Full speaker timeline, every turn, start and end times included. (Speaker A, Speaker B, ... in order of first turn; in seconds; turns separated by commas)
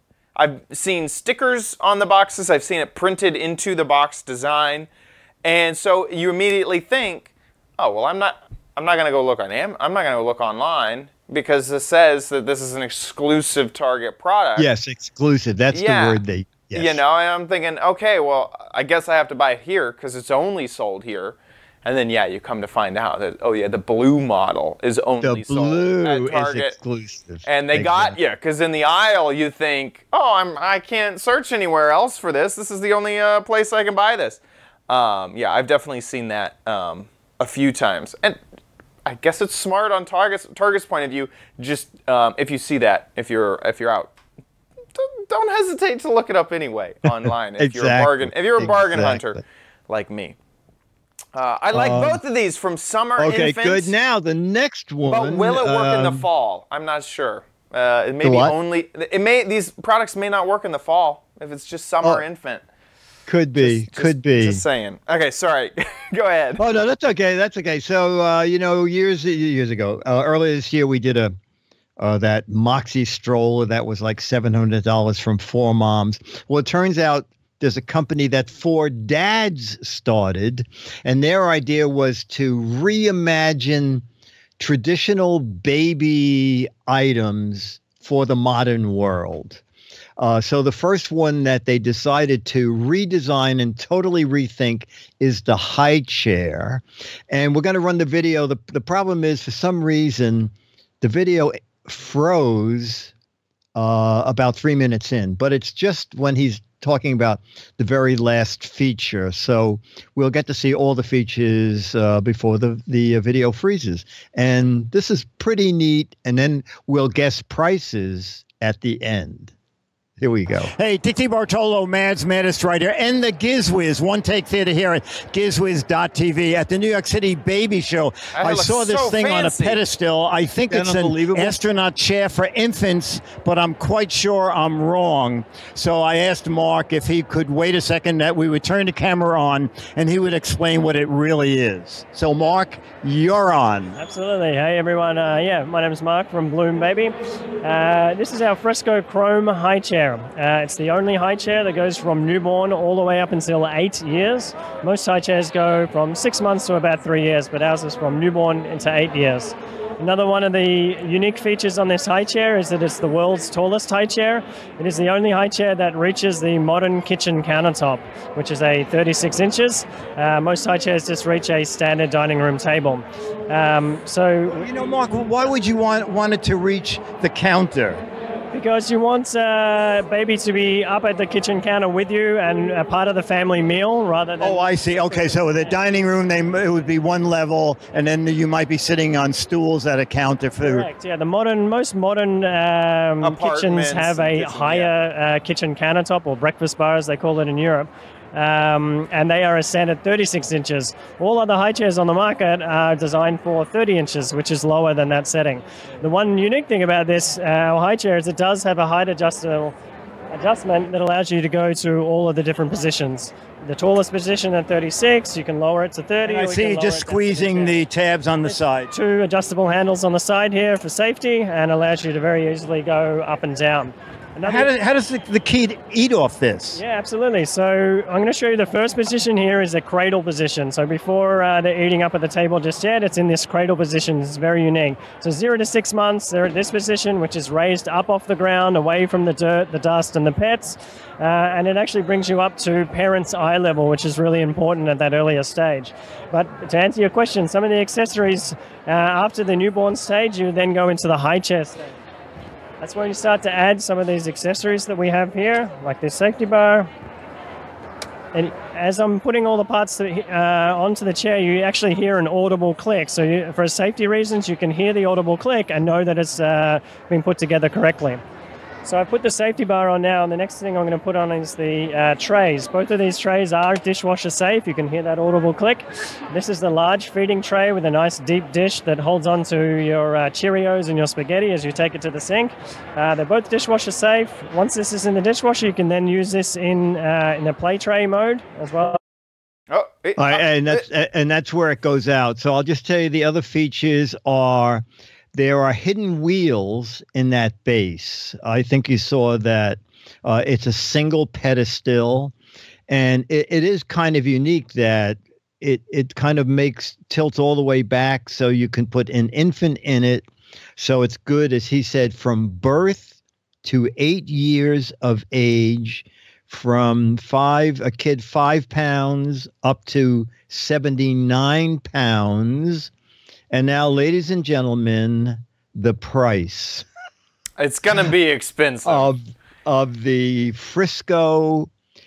Speaker A: 0.3-4.9, Speaker A: 5.4-14.7, Speaker B: 14.6-17.0, Speaker A: 15.7-16.2, Speaker A: 16.7-26.8, Speaker B: 25.2-28.1, Speaker A: 27.4-38.4, Speaker A: 39.0-44.1, Speaker A: 44.9-50.4, Speaker B: 47.0-49.4, Speaker A: 51.3-53.9, Speaker B: 51.7-52.2, Speaker B: 53.2-56.3, Speaker A: 55.0-62.6, Speaker B: 58.2-58.6, Speaker B: 63.2-64.6, Speaker A: 63.6-66.6, Speaker B: 66.6-71.4, Speaker B: 72.0-84.0, Speaker B: 84.6-89.6, Speaker B: 90.2-103.1, Speaker B: 103.8-119.5, Speaker B: 120.2-120.7, Speaker C: 120.7-144.0, Speaker A: 128.3-129.8, Speaker B: 130.7-131.6, Speaker D: 144.0-174.6, Speaker C: 174.5-178.0, Speaker D: 178.5-185.8, Speaker C: 184.4-190.9, Speaker D: 190.6-209.7, Speaker A: 193.2-194.9, Speaker D: 210.3-217.8, Speaker C: 216.2-218.9, Speaker D: 218.4-224.7, Speaker C: 224.4-226.8, Speaker D: 226.7-251.9, Speaker D: 252.8-256.9, Speaker D: 258.3-268.2, Speaker D: 268.8-289.0, Speaker A: 289.7-290.8, Speaker B: 290.2-302.3, Speaker B: 302.9-313.1, Speaker B: 313.6-322.9, Speaker B: 323.5-326.9, Speaker A: 327.6-329.1, Speaker B: 328.8-331.7